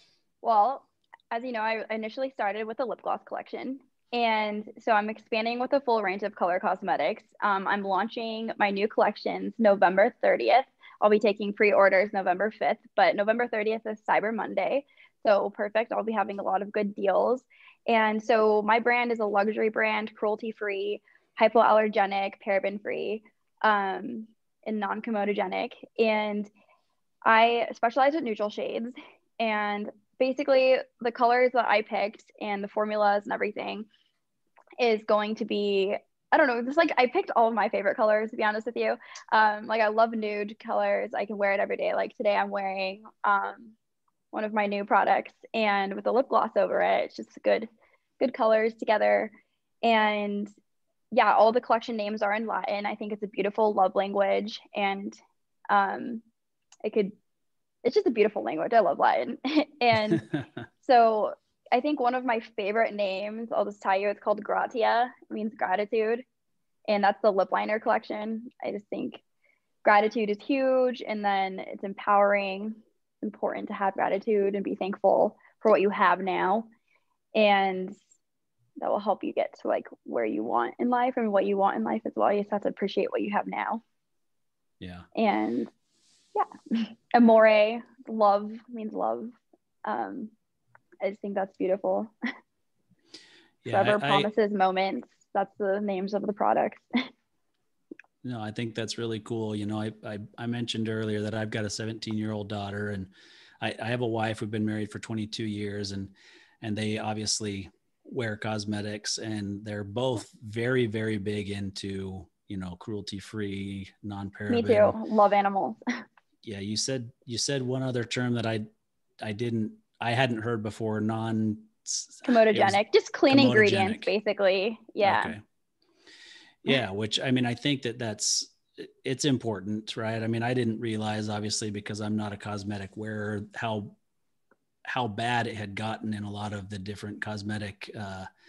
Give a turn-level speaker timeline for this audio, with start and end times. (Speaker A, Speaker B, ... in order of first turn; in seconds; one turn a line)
Speaker A: 0.4-26.5
Speaker A: 27.2-33.9
Speaker A: 34.8-43.7
Speaker A: 44.3-47.7
Speaker A: 48.2-50.5
Speaker A: 51.1-55.2
Speaker A: 55.7-56.2
Speaker A: 56.8-57.1
Speaker A: 57.8-60.3
Speaker A: 60.8-66.2
Speaker A: 66.9-69.2
Speaker A: 69.8-76.7
Speaker A: 77.3-78.0
Speaker A: 78.8-83.8
Speaker B: 84.8-85.1
Speaker A: 85.1-85.7
Speaker A: 86.3-90.3
Speaker A: 91.0-92.1
Speaker B: 93.6-94.3
Speaker A: 93.7-97.1
Speaker B: 98.2-115.0
Speaker A: 114.5-115.8
Speaker B: 116.4-118.7
Speaker B: 119.2-124.1
Speaker A: 122.2-125.3
Speaker B: 125.0-125.4
Speaker B: 126.6-133.9
Speaker B: 134.8-138.3